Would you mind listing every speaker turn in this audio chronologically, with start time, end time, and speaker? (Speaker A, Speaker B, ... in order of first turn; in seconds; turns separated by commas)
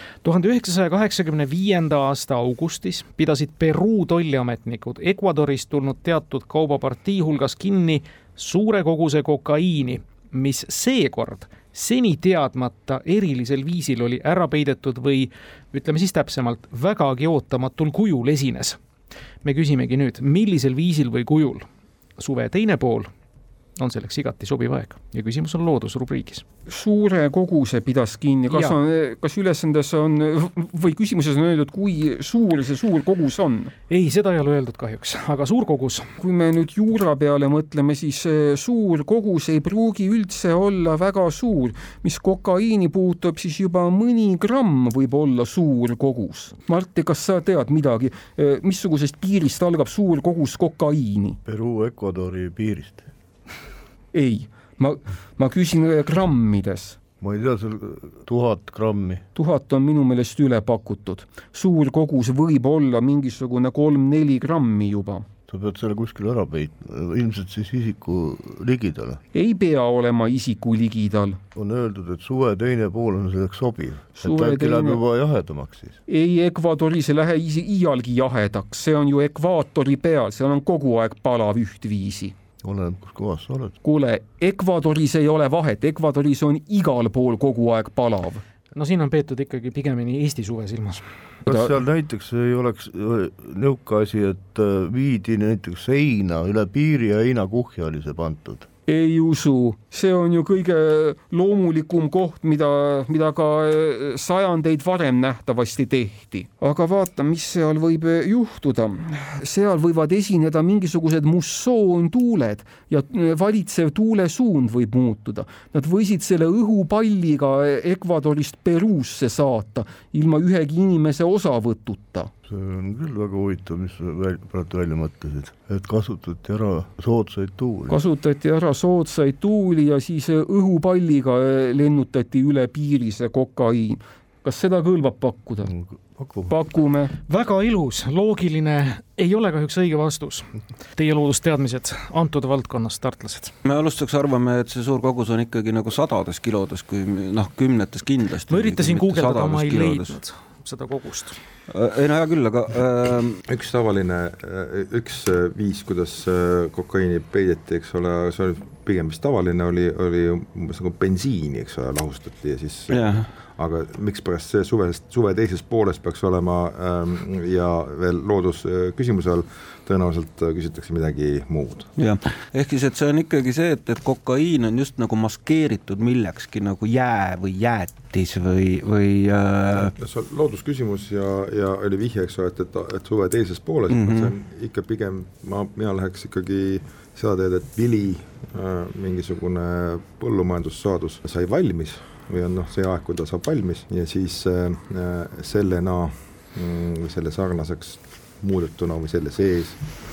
Speaker A: 0.2-18.8, Speaker A: 19.4-21.6, Speaker A: 22.2-23.1, Speaker A: 23.8-26.4, Speaker B: 26.7-33.7, Speaker A: 28.5-28.8, Speaker A: 33.9-36.1, Speaker B: 36.2-51.4, Speaker C: 51.5-53.1, Speaker B: 54.1-57.0, Speaker C: 57.2-59.2, Speaker B: 59.4-65.3, Speaker C: 65.5-69.2, Speaker B: 69.3-71.4, Speaker C: 71.5-76.0, Speaker B: 74.2-75.0, Speaker B: 76.1-82.3, Speaker C: 82.6-83.8, Speaker B: 83.8-88.4, Speaker A: 88.7-91.0, Speaker C: 91.4-98.7, Speaker B: 91.5-91.8, Speaker B: 98.9-122.3, Speaker C: 122.5-128.0, Speaker B: 127.9-135.7, Speaker C: 135.7-136.5, Speaker B: 136.5-137.2, Speaker A: 137.3-143.5, Speaker D: 143.7-150.2, Speaker A: 148.5-151.4, Speaker D: 151.7-153.4, Speaker E: 153.5-171.9, Speaker D: 162.9-163.3, Speaker D: 172.0-179.9, Speaker E: 179.8-199.8, Speaker D: 183.9-184.3